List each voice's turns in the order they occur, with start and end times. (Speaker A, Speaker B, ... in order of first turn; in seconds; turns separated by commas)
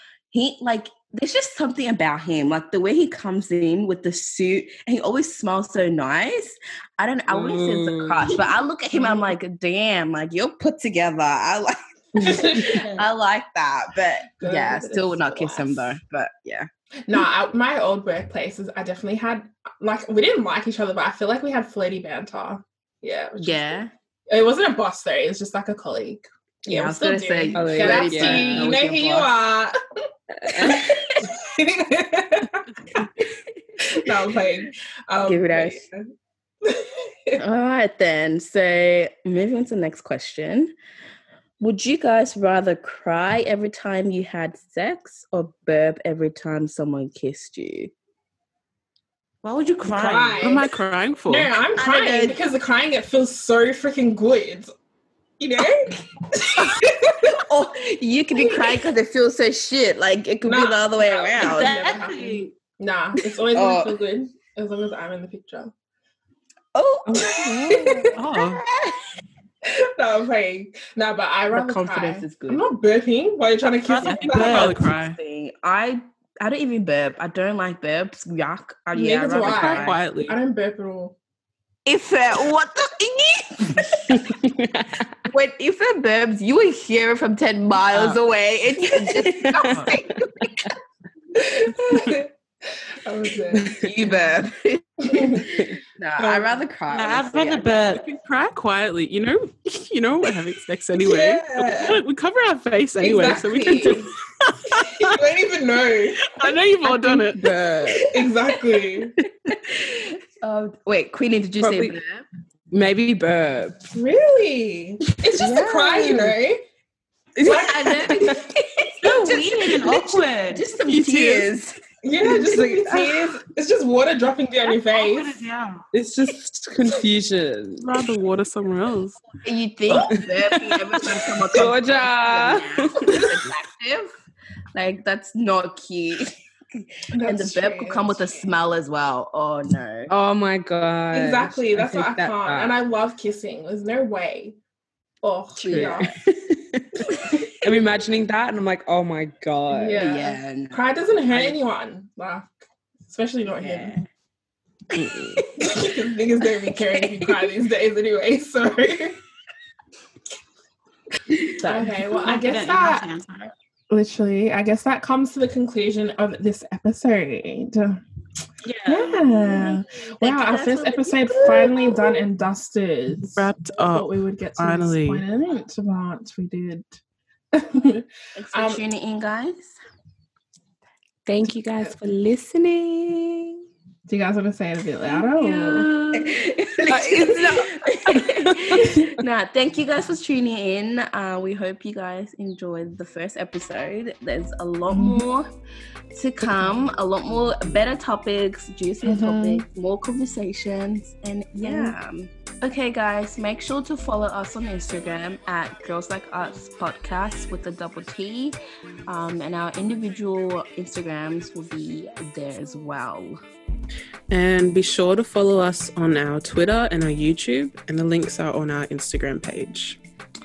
Speaker A: 0.3-16.7, Speaker B: 7.3-8.4, Speaker C: 8.9-9.3, Speaker B: 12.2-12.8, Speaker C: 12.3-12.8, Speaker D: 12.7-13.0, Speaker C: 14.4-16.0, Speaker C: 17.1-23.8, Speaker A: 23.4-23.9, Speaker C: 24.3-29.8, Speaker A: 26.7-29.3, Speaker B: 27.6-28.8, Speaker B: 30.3-31.1, Speaker C: 30.6-33.1, Speaker C: 33.8-36.1, Speaker A: 35.2-35.8, Speaker C: 36.6-37.4, Speaker A: 37.4-40.7, Speaker A: 41.6-47.9, Speaker D: 49.4-50.7, Speaker C: 49.9-50.7, Speaker E: 50.4-51.5, Speaker C: 51.3-54.7, Speaker A: 51.8-52.4, Speaker C: 55.4-57.4, Speaker A: 56.6-61.7, Speaker C: 60.4-65.7, Speaker D: 61.3-62.5, Speaker A: 63.5-64.0, Speaker A: 66.7-68.1, Speaker B: 67.1-67.5, Speaker C: 67.2-68.1, Speaker E: 68.2-68.6, Speaker C: 69.7-74.8, Speaker A: 71.5-72.7, Speaker D: 73.8-74.8, Speaker E: 74.0-75.2, Speaker A: 74.3-80.0, Speaker C: 78.9-81.2, Speaker E: 79.4-80.4, Speaker A: 81.8-84.3, Speaker B: 84.1-85.0, Speaker A: 85.3-90.6, Speaker B: 87.9-88.2, Speaker B: 89.0-90.7, Speaker E: 89.6-89.9, Speaker C: 91.4-92.3, Speaker C: 93.0-93.8, Speaker B: 93.5-93.9, Speaker A: 93.8-98.0, Speaker C: 95.1-95.4, Speaker C: 96.2-96.5, Speaker D: 96.9-98.1, Speaker E: 98.0-105.2, Speaker C: 101.0-102.0, Speaker C: 103.0-104.1, Speaker C: 105.0-106.3, Speaker E: 106.2-107.5, Speaker B: 106.9-108.1, Speaker A: 106.9-108.2, Speaker C: 108.1-109.2, Speaker A: 109.5-112.2, Speaker B: 111.6-112.0, Speaker B: 112.7-113.8, Speaker C: 113.9-116.6, Speaker B: 115.4-116.3, Speaker A: 117.4-121.8, Speaker B: 117.4-118.3, Speaker C: 117.4-118.3, Speaker D: 119.0-120.7, Speaker E: 120.8-121.5, Speaker C: 122.0-125.4, Speaker B: 122.2-123.3, Speaker D: 124.7-125.8, Speaker B: 125.9-127.8, Speaker E: 127.8-129.2, Speaker A: 129.4-134.1, Speaker B: 129.9-133.4, Speaker A: 134.7-140.1, Speaker C: 137.1-138.5, Speaker B: 140.1-142.8, Speaker C: 141.1-144.6, Speaker C: 145.2-146.1, Speaker B: 145.6-146.1, Speaker A: 145.6-146.1, Speaker B: 146.8-150.0, Speaker A: 147.1-147.4, Speaker C: 149.7-154.0, Speaker A: 149.9-150.8, Speaker A: 153.5-154.1, Speaker A: 154.9-155.9, Speaker B: 154.9-155.4, Speaker C: 155.6-159.2, Speaker A: 156.6-157.5, Speaker A: 161.3-161.9, Speaker C: 161.6-163.1, Speaker D: 162.2-163.5, Speaker C: 163.9-168.0, Speaker A: 168.7-172.3, Speaker C: 168.9-177.0, Speaker E: 173.4-175.2, Speaker C: 177.5-178.8, Speaker A: 178.4-179.8, Speaker B: 181.3-183.6, Speaker C: 184.1-185.9, Speaker A: 185.1-195.5, Speaker B: 186.9-189.1, Speaker C: 194.9-195.2, Speaker A: 196.1-213.4, Speaker C: 199.0-199.7, Speaker C: 201.6-201.9, Speaker E: 214.3-220.0